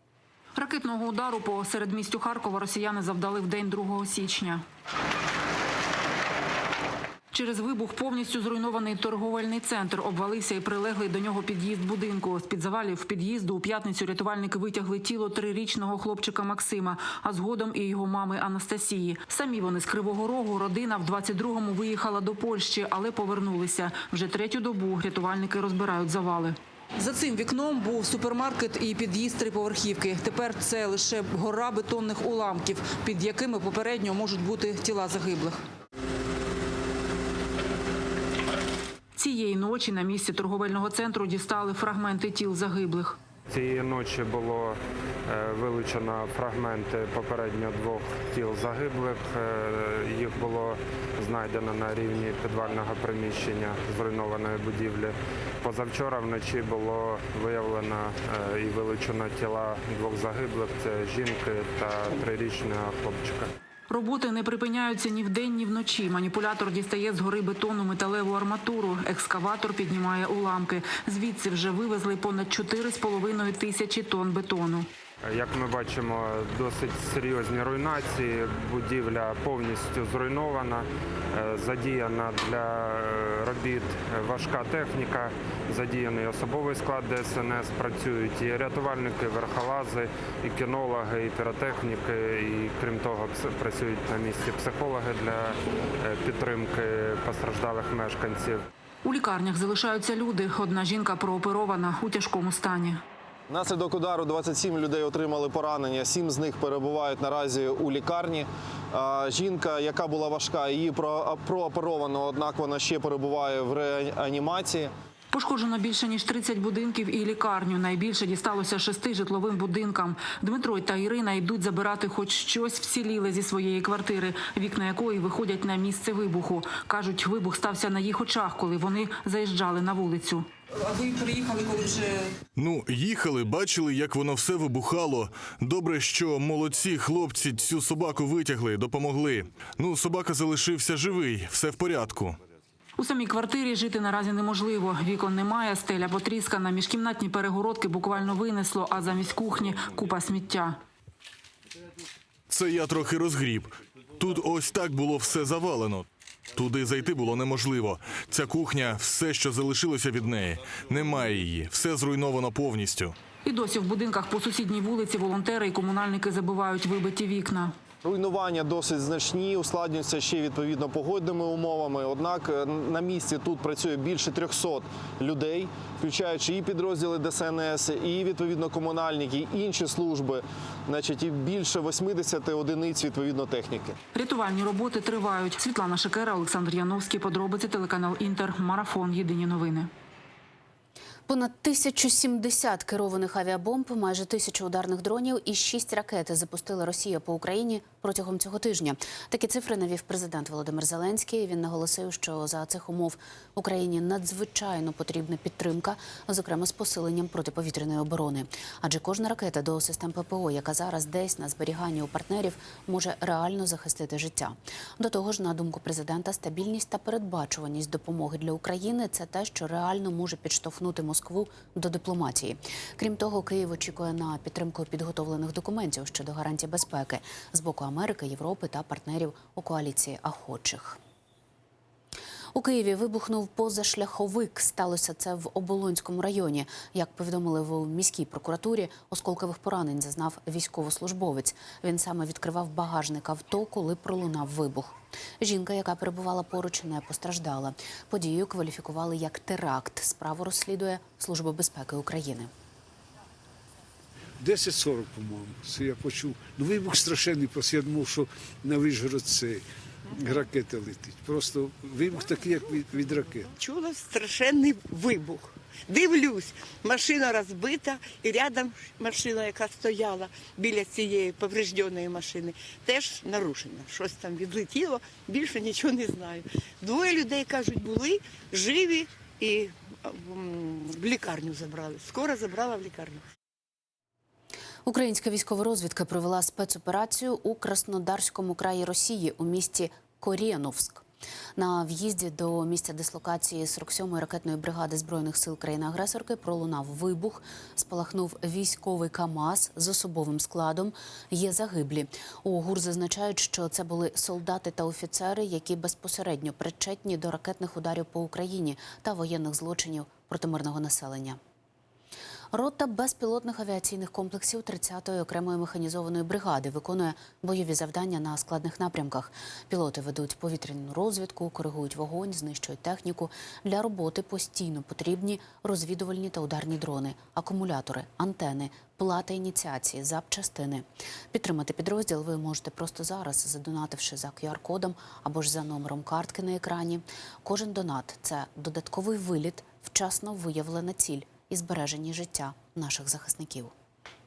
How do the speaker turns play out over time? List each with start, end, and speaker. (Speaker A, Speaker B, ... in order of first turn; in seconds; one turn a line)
Speaker A: 0.6-4.6
Speaker A: 7.3-35.6
Speaker A: 39.1-43.2
Speaker B: 43.5-63.5
Speaker A: 63.9-74.9
Speaker B: 75.2-98.6
Speaker A: 99.0-103.0
Speaker C: 103.5-114.9
Speaker A: 115.3-132.3
Speaker D: 132.6-142.4
Speaker A: 143.0-150.8
Speaker D: 152.5-163.2
Speaker A: 163.4-167.8
Speaker C: 168.0-184.0
Speaker A: 184.1-189.9
Speaker E: 191.3-231.0
Speaker E: 232.5-252.5
Speaker F: 254.4-263.5
Speaker G: 263.5-283.2
Speaker E: 284.9-291.0
Speaker E: 291.6-311.4
Speaker E: 312.5-343.7